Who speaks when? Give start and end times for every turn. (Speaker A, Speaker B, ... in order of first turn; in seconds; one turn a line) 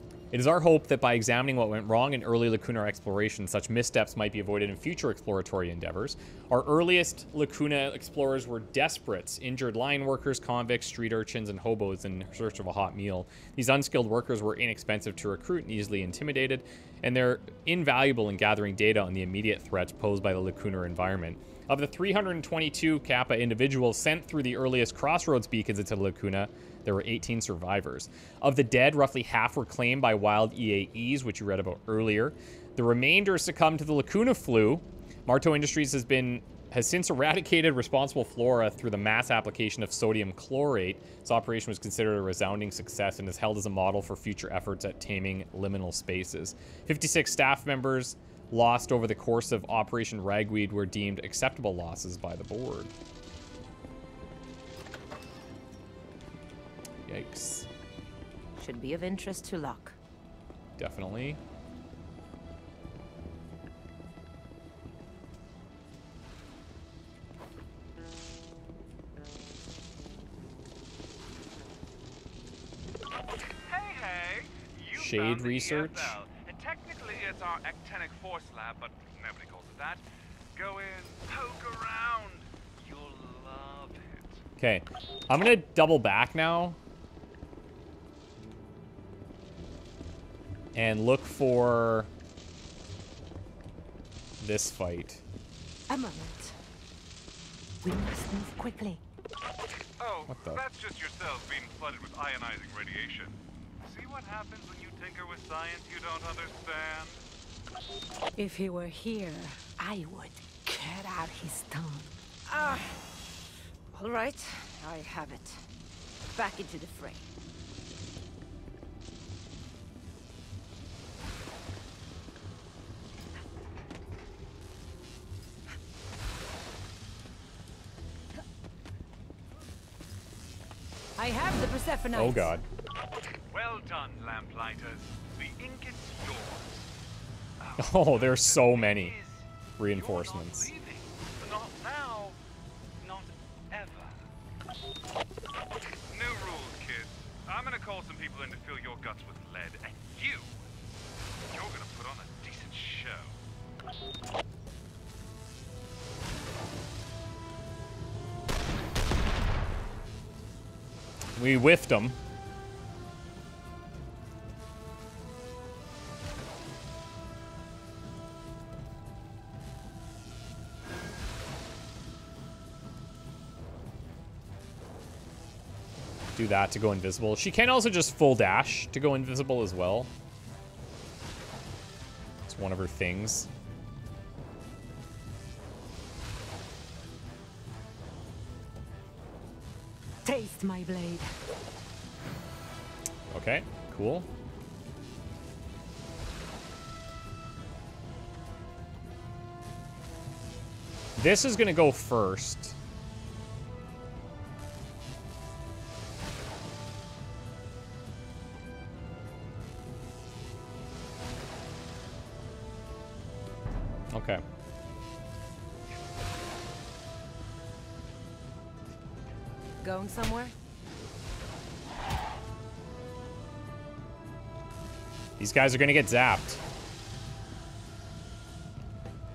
Speaker A: 0.3-52.9
Speaker A: 57.1-57.7
Speaker B: 58.6-60.0
Speaker A: 60.8-61.4
Speaker C: 73.7-80.0
Speaker A: 75.0-76.2
Speaker C: 80.5-84.4
Speaker A: 84.6-86.8
Speaker A: 90.8-92.1
Speaker A: 94.4-95.2
Speaker D: 95.9-96.6
Speaker D: 97.8-99.0
Speaker C: 100.0-107.2
Speaker A: 100.3-100.6
Speaker D: 108.4-112.1
Speaker B: 112.5-113.0
Speaker B: 113.9-115.7
Speaker B: 116.3-117.3
Speaker D: 131.2-132.6
Speaker A: 132.2-132.6
Speaker C: 133.5-136.9
Speaker C: 137.6-142.4
Speaker A: 137.8-139.2
Speaker A: 139.8-140.7
Speaker C: 143.0-144.2
Speaker C: 146.1-150.6
Speaker C: 151.5-153.4
Speaker A: 161.4-162.2
Speaker A: 176.4-180.1
Speaker A: 182.5-183.5
Speaker D: 190.2-191.3
Speaker A: 193.3-194.3
Speaker A: 201.2-202.8
Speaker A: 214.1-214.4
Speaker B: 219.8-220.5
Speaker A: 225.4-226.6